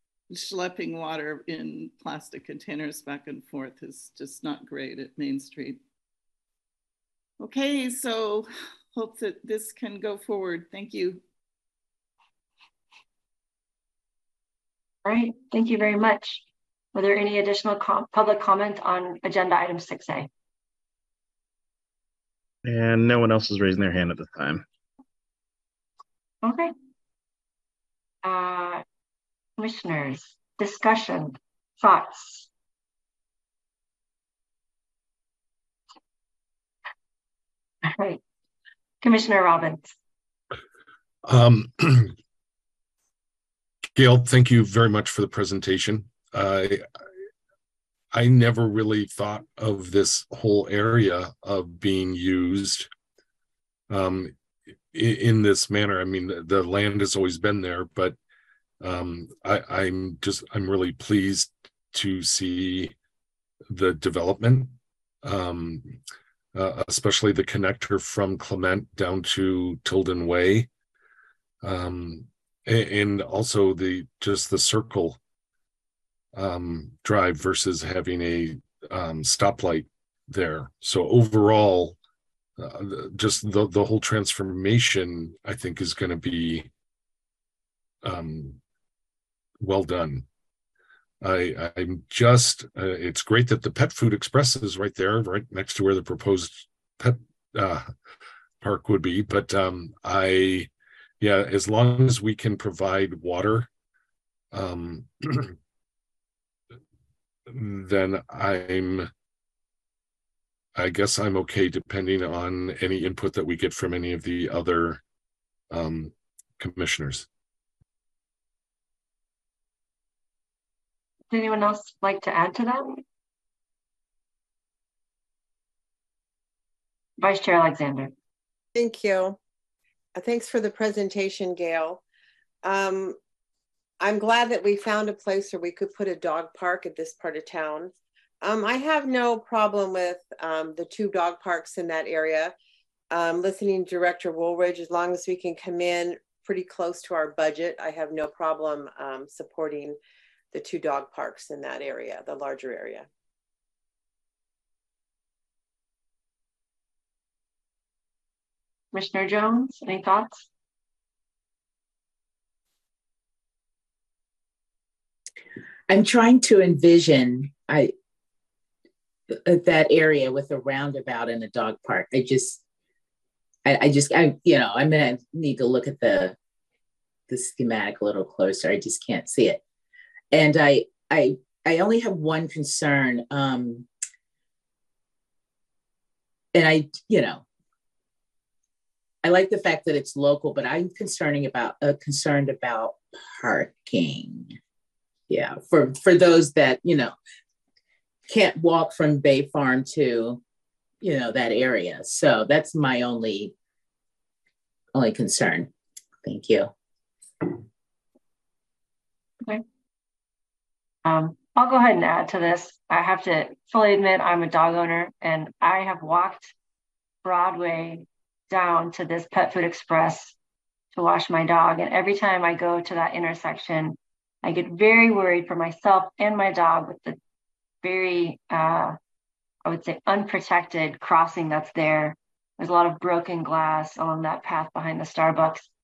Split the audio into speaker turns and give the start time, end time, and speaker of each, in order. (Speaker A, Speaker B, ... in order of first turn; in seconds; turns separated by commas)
Speaker A: 0.3-5.8, Speaker A: 7.4-11.2, Speaker B: 15.1-20.3, Speaker C: 22.6-24.6, Speaker B: 26.4-26.7, Speaker B: 28.2-28.8, Speaker B: 29.6-32.5, Speaker B: 37.8-38.2, Speaker B: 39.0-40.0, Speaker D: 41.2-42.1, Speaker D: 44.0-46.9, Speaker D: 48.1-52.9, Speaker D: 53.9-54.3, Speaker D: 54.9-58.2, Speaker D: 58.8-62.9, Speaker D: 63.7-66.0, Speaker D: 66.5-70.7, Speaker D: 71.6-75.2, Speaker D: 76.3-82.0, Speaker D: 82.6-86.7, Speaker D: 88.0-88.6, Speaker D: 89.6-90.3, Speaker D: 91.2-97.9, Speaker D: 98.6-103.7, Speaker D: 104.5-105.5, Speaker D: 107.5-109.1, Speaker D: 110.8-115.0, Speaker D: 115.7-117.3, Speaker B: 121.3-123.0, Speaker B: 127.2-128.1, Speaker E: 128.8-129.4, Speaker E: 130.2-132.0, Speaker E: 132.6-133.2, Speaker E: 134.0-142.5, Speaker E: 143.1-150.0, Speaker E: 150.5-153.1, Speaker B: 158.9-160.4, Speaker F: 165.9-167.9, Speaker F: 169.3-172.6, Speaker F: 173.7-176.3, Speaker F: 177.3-179.6, Speaker F: 180.3-183.9, Speaker F: 186.5-187.4, Speaker F: 189.2-194.6, Speaker F: 195.3-197.2, Speaker F: 198.3-200.4, Speaker F: 201.0-203.5, Speaker F: 204.9-205.7, Speaker F: 206.2-206.7, Speaker B: 211.0-216.5, Speaker B: 217.2-220.3, Speaker B: 220.9-227.2, Speaker B: 227.8-229.0, Speaker B: 229.7-235.7